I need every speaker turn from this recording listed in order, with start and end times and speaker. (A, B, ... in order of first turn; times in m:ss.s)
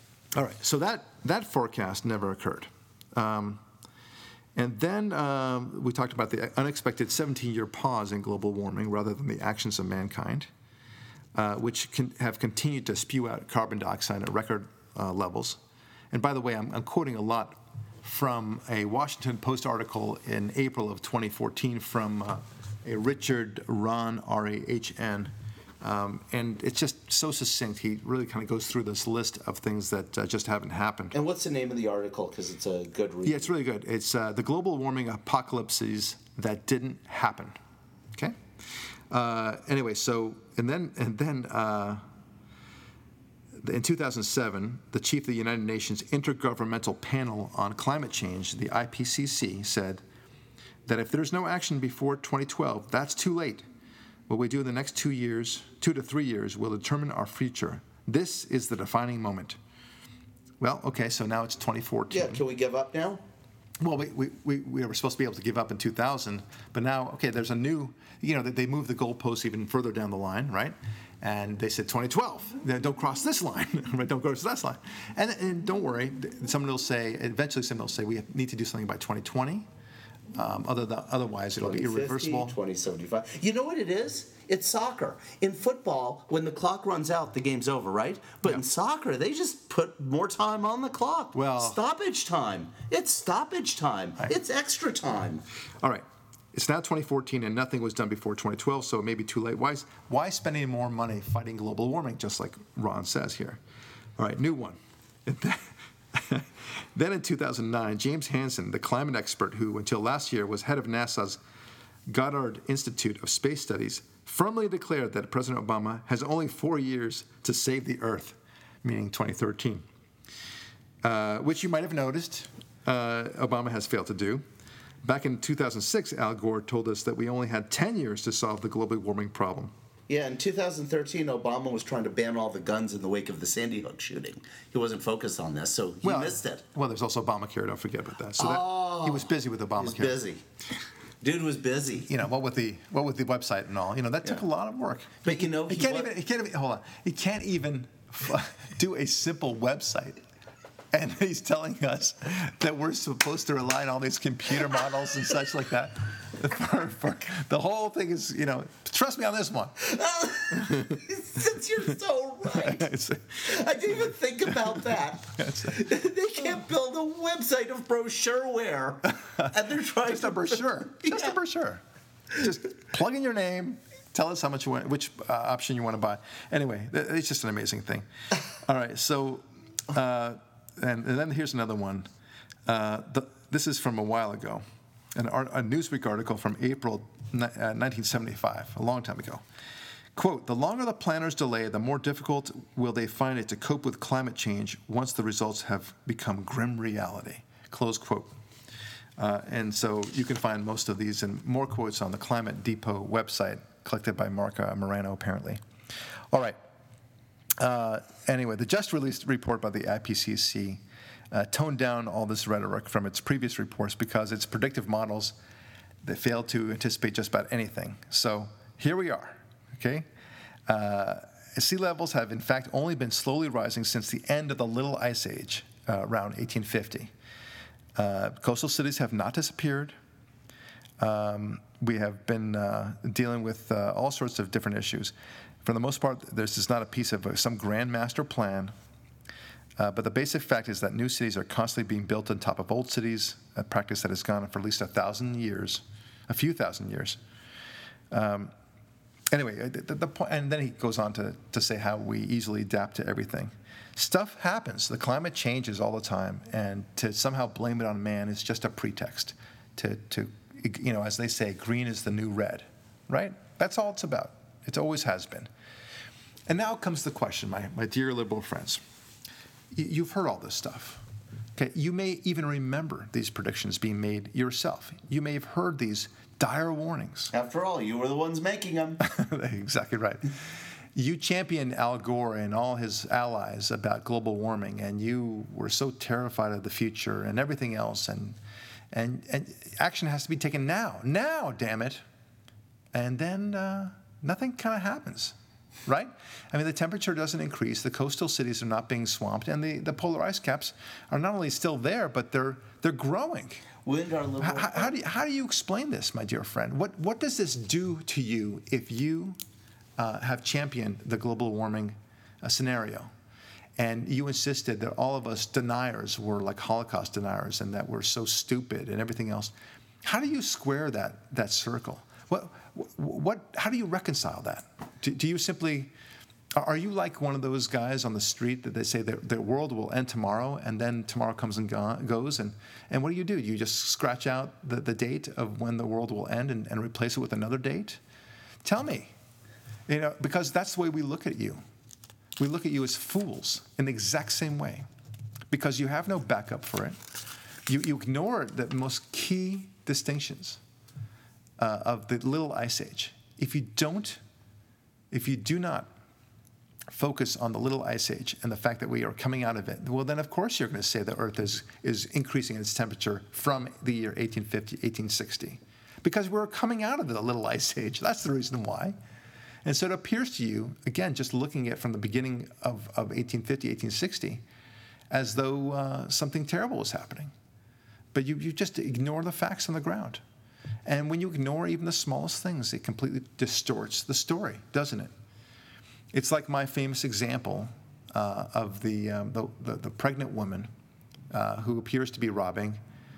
0:00.3-0:03.6 A
0:04.6-0:10.5 A
0:11.4-0:15.6 A
0:16.1-0:31.2 A
0:31.1-0:33.5 B
0:33.2-0:37.6 A
0:39.1-0:42.0 A
0:43.6-0:50.0 A
0:50.9-0:53.7 A
0:54.3-0:59.6 A
1:00.6-1:02.4 A
1:02.1-1:03.2 B
1:03.8-1:19.7 A
1:20.4-1:22.6 A
1:21.6-1:35.4 B
1:31.3-1:31.8 A
1:35.8-1:43.6 A
1:44.2-1:51.4 A
1:52.1-1:59.9 A
2:01.0-2:04.4 A
2:05.0-2:09.7 A
2:10.1-2:16.6 B
2:16.0-2:20.2 A
2:18.4-2:20.4 B
2:21.2-2:22.1 B
2:22.1-2:30.2 A
2:25.2-2:26.1 B
2:30.9-2:39.8 A
2:39.8-2:42.8 B
2:40.6-2:41.0 A
2:42.5-2:43.5 A
2:43.4-2:51.3 B
2:45.2-2:45.9 A
2:50.0-2:51.8 A
2:52.4-3:02.1 A
3:02.7-3:04.6 A
3:05.2-3:09.4 A
3:10.2-3:18.3 A
3:19.2-3:25.6 A
3:26.3-3:26.6 A
3:27.6-3:35.4 A
3:36.0-3:40.1 A
3:40.7-3:47.1 A
3:48.0-3:50.0 A
3:51.0-3:58.7 A
3:59.8-4:07.2 A
4:08.1-4:08.5 A
4:09.3-4:25.5 A
4:26.5-4:28.8 A
4:29.7-4:31.0 A
4:31.6-4:37.3 A
4:37.3-4:39.0 B
4:39.0-4:40.3 A
4:41.0-4:48.4 A
4:48.9-4:52.0 A
4:52.9-5:03.7 A
5:03.8-5:05.0 B
5:04.4-5:09.4 A
5:10.0-5:13.1 A
5:13.8-5:25.9 A
5:26.6-5:38.0 A
5:38.6-5:39.1 A
5:39.9-5:41.6 A
5:42.4-5:44.9 A
5:45.5-5:47.0 A
5:47.7-5:50.6 A
5:51.6-5:54.2 A
5:55.1-5:55.9 A
5:56.9-6:09.0 A
6:09.6-6:14.4 A
6:15.1-6:17.3 A
6:18.1-6:20.2 A
6:20.9-6:25.1 A
6:26.1-6:30.7 A
6:31.3-6:32.8 A